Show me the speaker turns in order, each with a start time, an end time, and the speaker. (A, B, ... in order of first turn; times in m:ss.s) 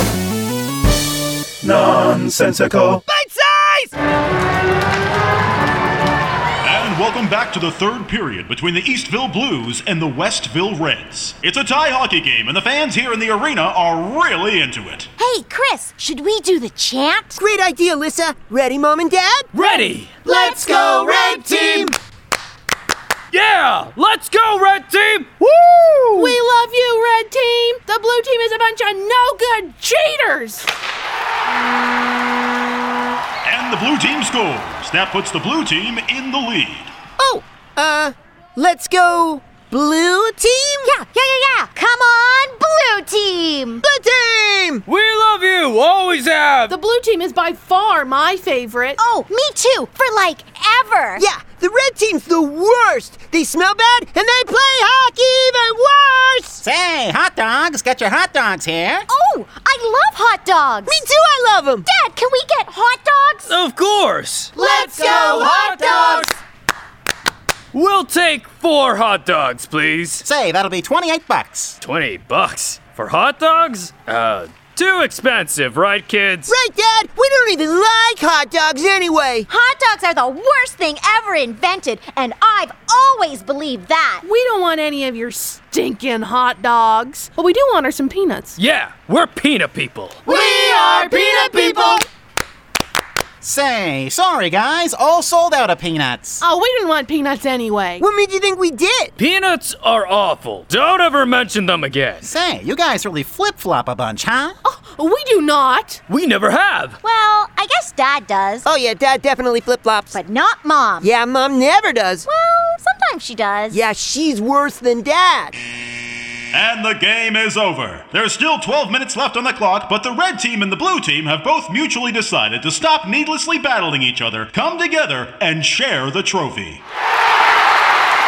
0:01.6-0:03.0 A
0:03.1-0:03.9 B
0:06.6-0:15.1 A
0:15.2-0:17.4 C
0:17.4-0:19.5 B
0:19.5-0:20.2 D
0:20.4-0:21.9 B
0:23.3-0:25.6 D
0:25.6-0:26.3 B
0:26.2-0:30.7 E
0:33.4-0:36.9 A
0:37.2-0:41.0 B
0:40.8-0:43.8 C
0:43.8-0:44.8 B
0:44.9-0:46.8 D
0:46.7-0:49.0 E
0:49.0-0:51.3 C
0:51.2-0:56.6 B
0:56.6-0:59.0 F
0:59.1-1:01.0 C
1:00.9-1:01.9 B
1:01.8-1:03.5 C
1:03.5-1:06.3 D
1:04.6-1:06.2 C
1:07.7-1:10.2 D
1:10.2-1:11.8 F
1:11.8-1:16.6 D
1:16.5-1:19.5 B
1:19.5-1:24.2 C
1:24.2-1:28.6 E
1:28.6-1:30.2 D
1:30.2-1:32.0 E
1:30.3-1:32.0 B
1:33.4-1:36.4 F
1:36.4-1:38.1 E
1:38.0-1:39.1 B
1:39.2-1:42.3 D
1:42.2-1:44.6 F
1:44.6-1:46.0 E
1:46.1-1:47.0 D
1:47.0-1:48.7 C
1:48.6-1:50.2 B
1:50.1-1:51.1 C
1:51.0-1:52.3 B
1:52.2-1:53.8 C
1:53.7-1:55.6 B
1:56.5-2:06.8 A